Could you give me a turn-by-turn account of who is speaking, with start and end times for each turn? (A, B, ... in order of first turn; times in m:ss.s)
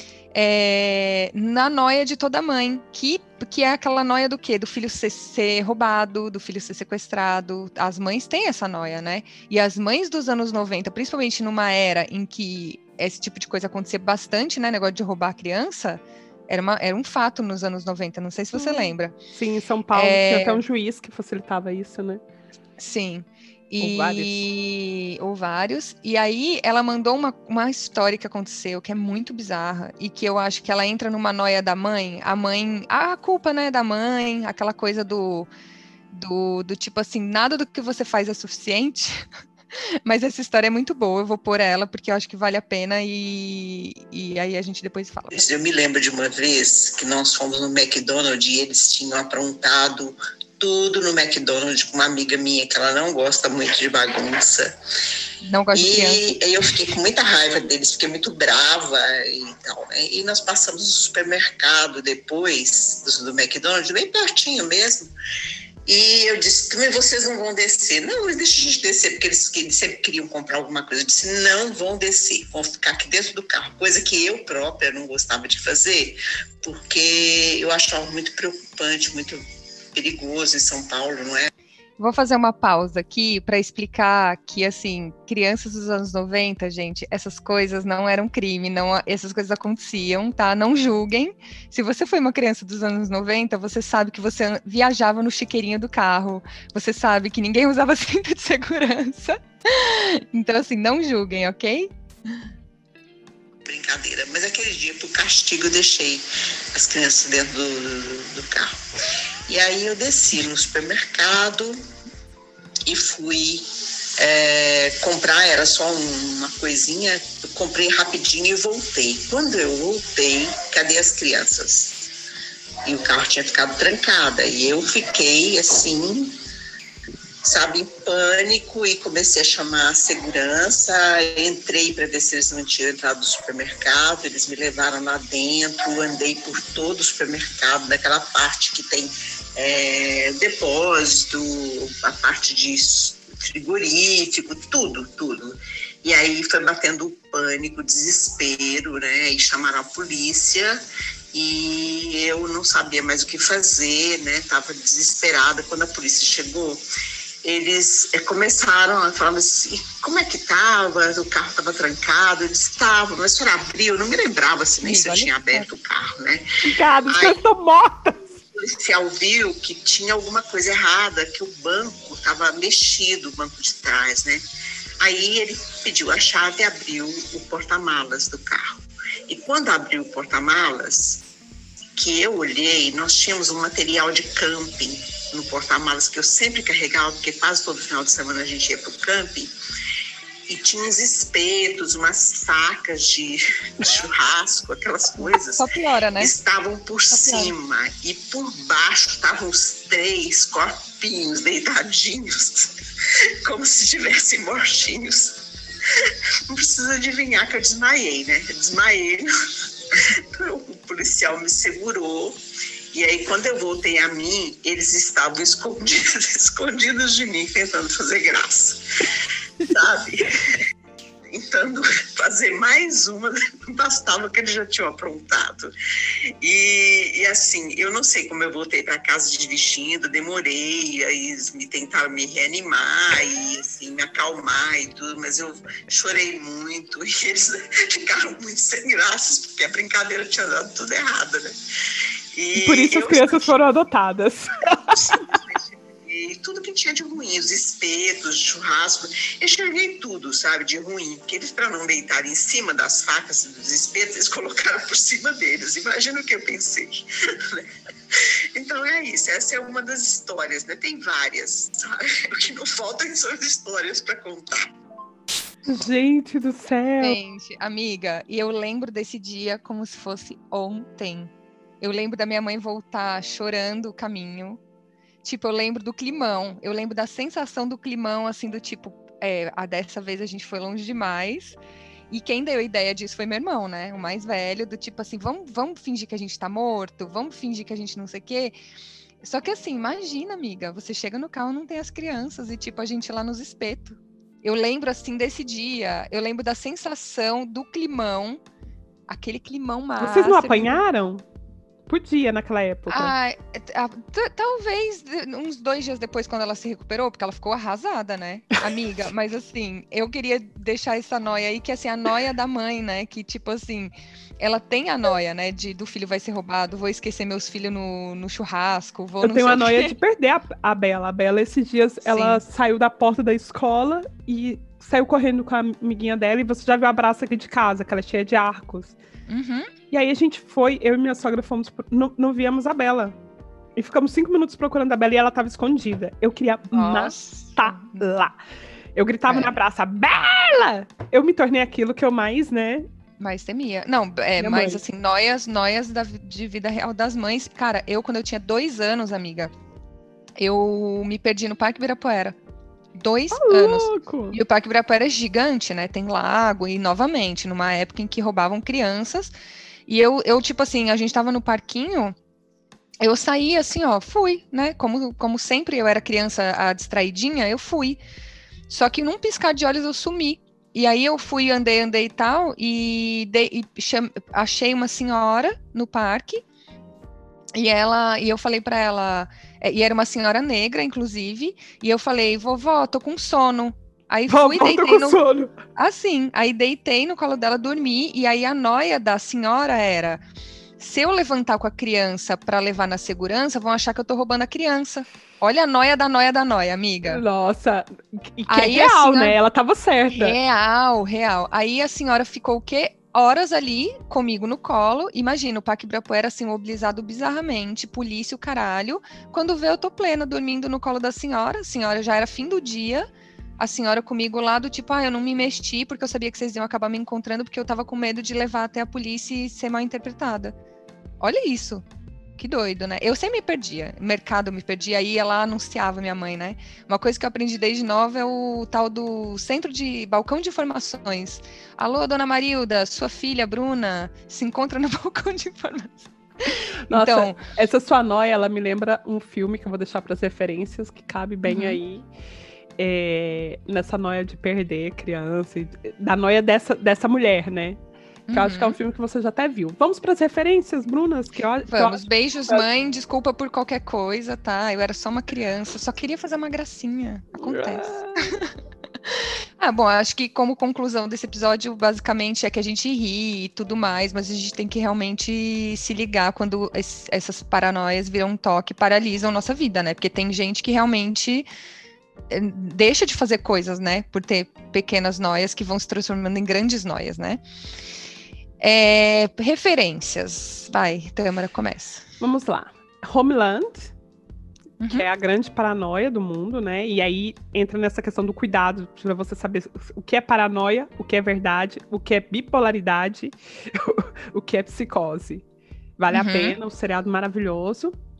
0:00.3-0:19.2 A
0:18.5-0:22.2 B
0:19.9-0:20.6 A
0:22.8-0:35.5 A
0:23.8-0:24.5 B
0:36.1-0:39.3 A
0:40.0-0:45.4 A
0:45.3-0:54.7 C
0:55.4-0:56.3 A
0:55.7-1:05.1 C
1:05.8-1:19.4 C
1:19.9-1:21.5 C
1:22.0-1:41.9 A
1:43.6-1:48.7 C
1:49.5-1:51.8 C
1:52.9-2:02.0 C
2:02.8-2:06.4 C
2:07.4-2:30.8 C
2:31.3-2:36.8 C
2:37.4-2:46.4 C
2:44.8-2:45.7 A
2:46.6-2:48.4 B
2:47.1-2:47.4 C
2:48.5-2:54.4 C
2:55.0-3:01.2 C
3:02.0-3:09.5 C
3:10.5-3:22.7 C
3:15.2-3:16.4 A
3:17.1-3:17.5 A
3:23.4-3:25.4 C
3:26.5-3:29.3 C
3:29.9-3:32.4 C
3:32.9-3:38.8 C
3:39.6-3:40.6 C
3:41.3-3:45.7 C
3:46.4-4:01.6 C
4:02.3-4:03.5 C
4:02.6-4:05.2 B
4:04.9-4:24.7 C
4:25.6-4:27.2 B
4:27.0-4:34.6 A
4:35.2-4:41.6 A
4:42.1-4:48.5 A
4:49.2-4:58.4 A
4:59.1-5:00.8 A
5:00.0-5:01.2 B
5:01.9-5:03.1 B
5:02.9-5:19.9 A
5:19.2-5:29.0 B
5:22.0-5:22.4 A
5:29.3-5:29.7 A
5:29.9-5:33.2 B
5:33.8-5:38.3 B
5:36.7-5:38.1 A
5:38.9-5:42.8 B
5:39.3-5:39.6 A
5:43.2-5:49.5 A
5:44.4-5:44.8 B
5:50.4-5:52.4 A
5:52.9-5:59.3 A
5:53.3-5:54.4 B
5:59.9-6:02.1 A
6:03.0-6:08.0 A
6:08.7-6:16.4 A
6:17.5-6:25.2 A
6:24.3-6:25.6 B
6:25.7-6:30.2 A
6:30.8-6:37.2 A
6:37.0-6:40.4 B
6:38.5-6:39.3 A
6:40.1-6:53.0 A
6:53.6-7:00.5 A
7:01.2-7:01.8 A
7:02.4-7:17.4 A
7:16.9-7:22.0 B
7:21.5-7:21.8 A
7:22.8-7:27.8 B
7:28.3-7:28.8 A
7:28.3-7:32.6 B
7:31.7-7:38.5 A
7:37.4-7:38.4 B
7:39.0-7:51.4 A
7:52.3-7:57.4 A
7:58.6-8:02.0 A
8:02.2-8:03.9 B
8:04.8-8:05.1 A
8:04.9-8:15.4 B
8:16.0-8:17.9 B
8:16.1-8:16.6 A